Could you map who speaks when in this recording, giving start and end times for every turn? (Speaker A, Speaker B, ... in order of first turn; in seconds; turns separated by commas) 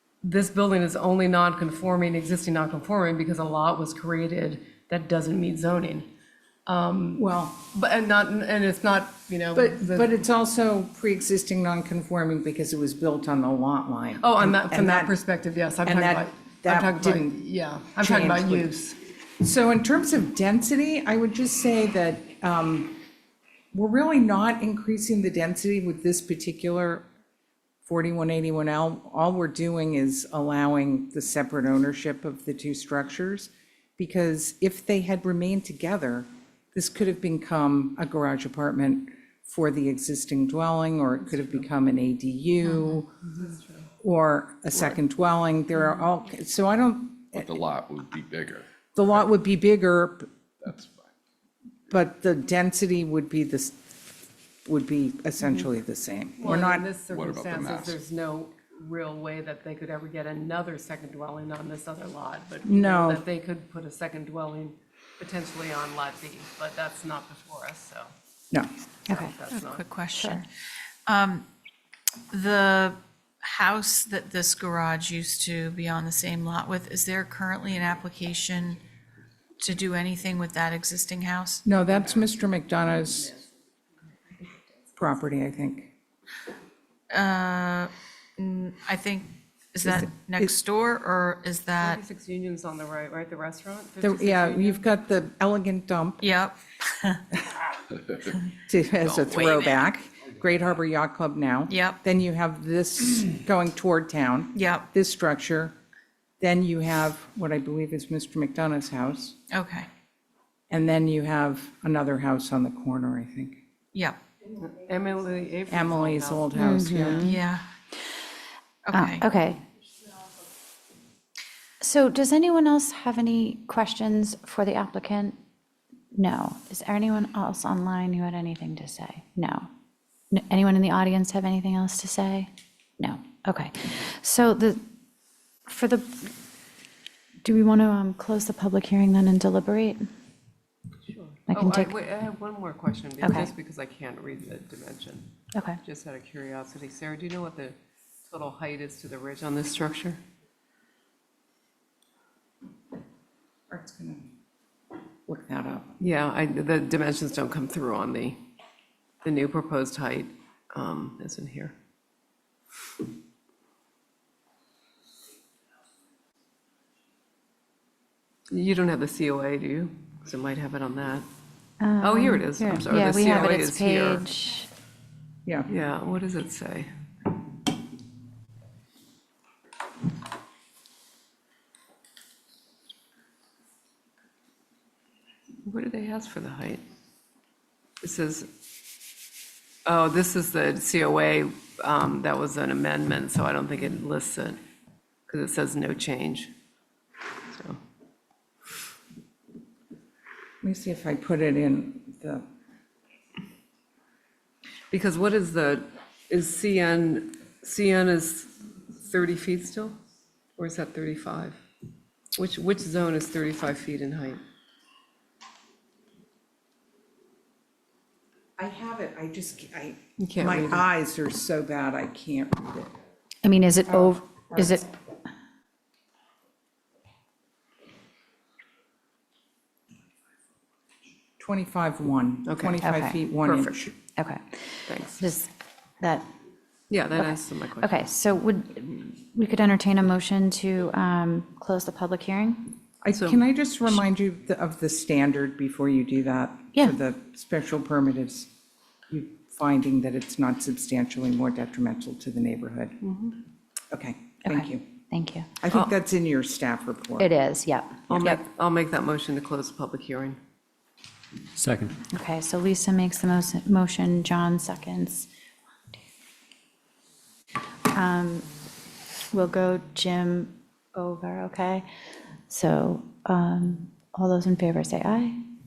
Speaker A: 0.2-6.1, Speaker A: 6.7-10.1, Speaker B: 7.2-7.5, Speaker B: 9.5-15.1, Speaker A: 14.2-19.0, Speaker B: 15.8-17.4, Speaker B: 18.0-18.7, Speaker B: 19.4-23.0, Speaker B: 23.7-27.0, Speaker B: 27.9-43.1, Speaker A: 43.2-43.8, Speaker B: 44.0-47.4, Speaker C: 47.3-48.7, Speaker B: 48.9-50.3, Speaker C: 50.6-51.1, Speaker B: 51.9-53.8, Speaker B: 54.6-56.9, Speaker A: 56.4-68.1, Speaker C: 57.1-58.0, Speaker B: 62.6-63.2, Speaker A: 69.1-69.9, Speaker D: 69.1-69.3, Speaker E: 69.5-70.5, Speaker D: 70.2-70.5, Speaker E: 71.1-71.5, Speaker E: 72.3-78.8, Speaker E: 79.6-81.6, Speaker B: 81.6-83.3, Speaker B: 85.0-85.9, Speaker E: 87.1-92.0, Speaker B: 89.8-90.5, Speaker A: 91.8-94.9, Speaker B: 94.0-96.2, Speaker E: 96.2-97.2, Speaker B: 98.6-105.7, Speaker E: 101.7-102.0, Speaker E: 104.5-104.9, Speaker B: 106.4-109.3, Speaker E: 109.5-109.9, Speaker B: 110.7-113.6, Speaker A: 114.5-117.1, Speaker B: 115.7-117.3, Speaker D: 116.6-117.4, Speaker E: 117.1-117.7, Speaker E: 118.8-119.2, Speaker D: 118.9-119.6, Speaker D: 121.8-125.4, Speaker D: 126.1-129.7, Speaker D: 130.3-134.8, Speaker D: 135.7-136.3, Speaker D: 137.4-140.1, Speaker A: 141.1-150.2, Speaker D: 141.5-141.9, Speaker D: 143.2-143.5, Speaker D: 145.5-145.8, Speaker B: 153.7-154.3, Speaker B: 155.3-156.0, Speaker A: 156.0-158.4, Speaker A: 159.2-161.7, Speaker A: 168.5-171.2, Speaker D: 171.8-174.7, Speaker A: 172.0-174.2, Speaker A: 175.7-176.9, Speaker A: 185.7-186.8, Speaker A: 188.0-188.5, Speaker A: 189.8-194.6, Speaker A: 195.3-196.5, Speaker A: 197.5-197.8, Speaker B: 200.6-202.4, Speaker A: 204.9-209.9, Speaker A: 210.6-211.6, Speaker A: 212.3-214.4, Speaker B: 218.6-222.9, Speaker A: 220.2-220.9, Speaker D: 223.4-224.9, Speaker B: 223.9-224.8, Speaker B: 231.4-233.9, Speaker A: 232.4-232.8, Speaker D: 232.8-233.5, Speaker D: 234.2-236.3, Speaker A: 234.9-235.3, Speaker A: 236.9-238.1, Speaker D: 237.2-242.8, Speaker B: 243.0-248.5, Speaker A: 243.1-243.4, Speaker B: 249.1-253.0, Speaker A: 253.0-253.4, Speaker B: 253.9-254.8, Speaker D: 254.4-255.5, Speaker B: 255.6-257.3, Speaker D: 257.2-258.4, Speaker A: 258.1-260.4, Speaker D: 262.1-265.3, Speaker D: 267.9-268.5, Speaker D: 269.3-271.9, Speaker D: 272.5-275.4